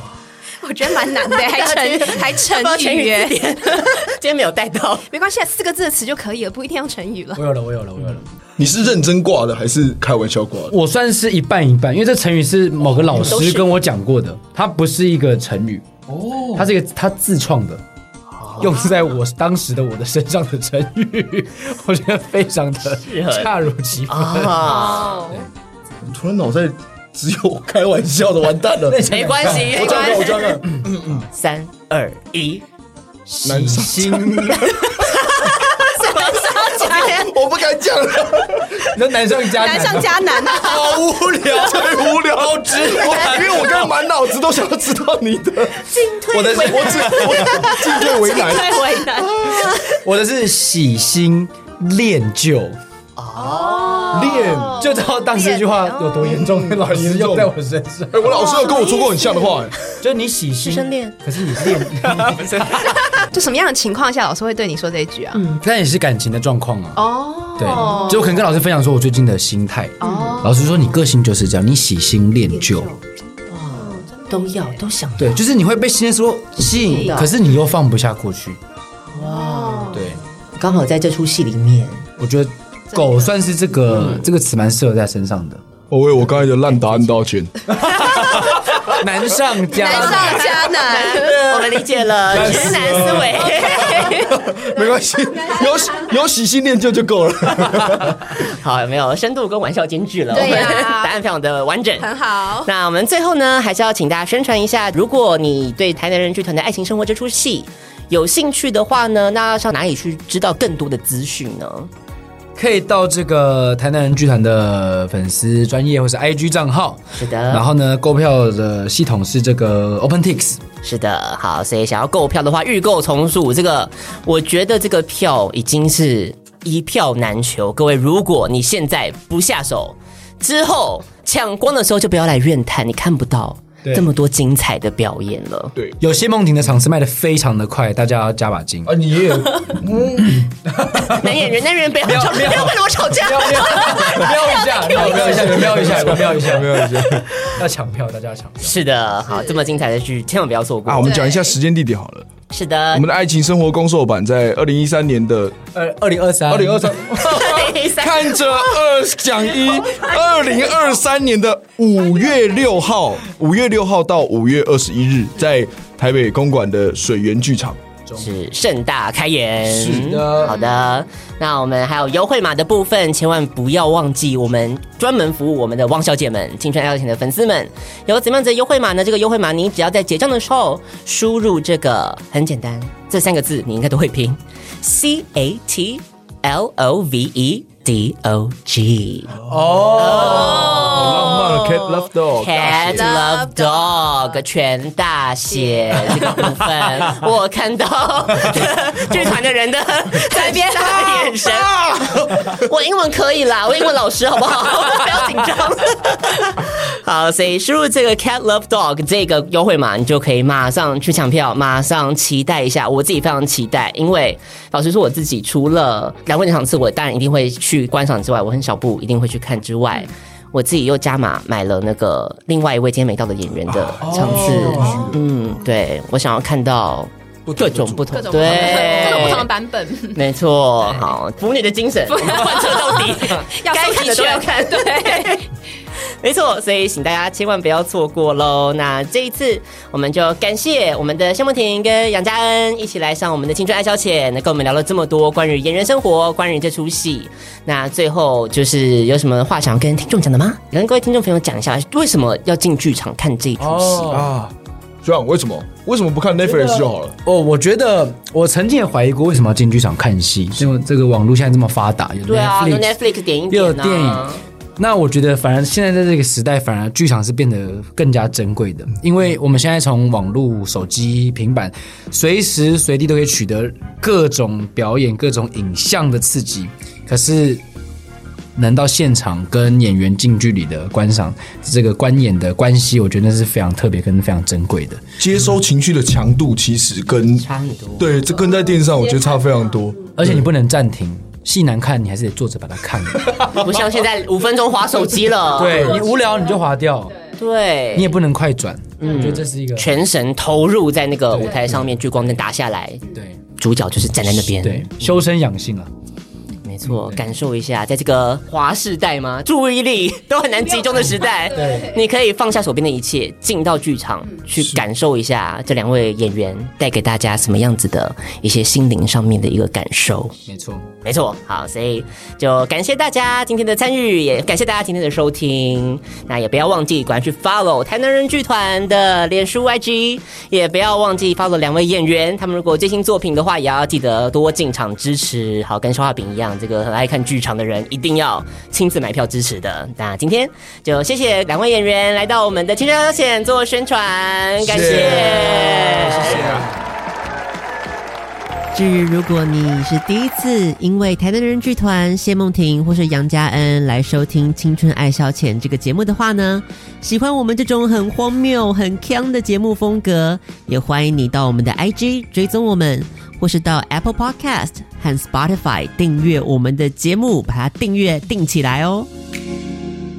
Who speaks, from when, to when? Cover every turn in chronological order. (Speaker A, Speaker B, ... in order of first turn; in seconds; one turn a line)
Speaker A: 0.6-3.9
Speaker B: 1.4-5.1
Speaker A: 5.1-7.4
Speaker C: 7.3-8.3
Speaker D: 8.6-10.7
Speaker C: 10.7-15.9
Speaker B: 13.0-13.7
Speaker D: 16.1-16.7
Speaker C: 16.6-17.8
Speaker B: 18.4-18.9
Speaker C: 18.6-24.9
Speaker B: 22.9-23.5
Speaker B: 24.1-25.3
Speaker A: 24.6-25.4
Speaker D: 26.0-31.3
Speaker C: 28.9-30.1
Speaker B: 29.1-30.6
Speaker B: 31.3-32.6
Speaker C: 33.3-34.7
Speaker D: 33.4-34.9
Speaker B: 35.0-37.3
Speaker A: 35.8-37.2
Speaker D: 37.0-38.9
Speaker C: 38.9-43.8
Speaker A: 39.4-41.0
Speaker D: 40.6-48.9
Speaker B: 45.9-47.9
Speaker C: 46.3-47.6
Speaker A: 47.9-49.7
Speaker B: 48.4-49.8
Speaker C: 50.0-52.8
Speaker B: 53.2-54.7
Speaker A: 53.4-56.4
Speaker C: 54.1-58.3
Speaker D: 56.2-57.5
Speaker D: 58.1-59.7
Speaker A: 58.3-59.7
Speaker C: 60.0-62.4
Speaker B: 60.6-61.2
Speaker B: 62.0-62.9
Speaker A: 62.8-65.4
Speaker C: 65.6-72.9
Speaker A: 67.0-68.4
Speaker B: 67.7-68.2
Speaker A: 70.0-70.7
Speaker B: 70.0-70.4
Speaker B: 73.5-75.4
Speaker C: 75.2-78.6
Speaker A: 76.8-77.2
Speaker B: 76.9-77.3
Speaker B: 79.1-82.0
Speaker A: 79.2-80.0
Speaker C: 79.9-80.2
Speaker C: 82.2-85.6
Speaker A: 82.9-83.3
Speaker B: 83.9-84.2
Speaker D: 85.9-87.5
Speaker C: 87.7-90.5
Speaker A: 89.7-91.8
Speaker B: 89.8-94.3
Speaker C: 92.3-93.4
Speaker A: 93.5-94.6
Speaker D: 93.8-98.4
Speaker A: 95.3-96.1
Speaker B: 98.4-111.9
Speaker A: 100.3-101.2
Speaker A: 102.0-102.7
Speaker C: 112.6-120.6
Speaker B: 117.2-117.6
Speaker B: 120.8-135.7
Speaker C: 136.0-139.0
Speaker D: 138.8-140.5
Speaker C: 140.8-141.2
Speaker B: 141.0-146.2
Speaker C: 142.0-146.8
Speaker D: 144.9-147.3
Speaker C: 147.5-148.8
Speaker B: 148.6-151.2
Speaker A: 149.3-149.6
Speaker D: 150.9-152.3
Speaker A: 151.0-151.4
Speaker B: 152.5-153.1
Speaker D: 152.9-155.6
Speaker C: 155.7-157.4
Speaker D: 156.5-167.8
Speaker B: 157.3-158.8
Speaker B: 168.2-191.4
Speaker C: 169.7-170.6
Speaker C: 189.4-190.7
Speaker D: 189.6-190.2
Speaker A: 190.3-191.8
Speaker D: 190.7-193.1
Speaker B: 192.2-229.5
Speaker A: 192.7-194.3
Speaker A: 195.5-196.6
Speaker A: 200.2-201.4
Speaker D: 201.5-202.5
Speaker D: 223.7-225.2
Speaker C: 224.1-224.9
Speaker D: 227.5-229.4
Speaker A: 228.1-230.2
Speaker B: 230.1-235.5
Speaker A: 232.1-235.4
Speaker B: 236.2-254.1
Speaker C: 253.6-254.3
Speaker D: 254.1-257.2
Speaker C: 256.4-262.9
Speaker B: 262.3-264.4
Speaker C: 263.5-264.3
Speaker C: 264.8-277.6
Speaker C: 278.6-285.0
Speaker D: 285.2-290.5
Speaker B: 287.4-288.2
Speaker C: 290.2-293.6
Speaker B: 293.5-296.1
Speaker C: 295.5-297.2
Speaker B: 297.4-298.1
Speaker C: 297.9-299.9
Speaker B: 299.0-303.0
Speaker C: 301.3-302.0
Speaker C: 303.1-303.4
Speaker B: 303.6-305.0
Speaker C: 304.6-305.9
Speaker B: 306.6-320.4
Speaker C: 311.4-312.0
Speaker C: 320.5-320.9
Speaker B: 321.0-346.7
Speaker D: 344.6-346.5
Speaker C: 344.7-346.8
Speaker E: 348.7-369.1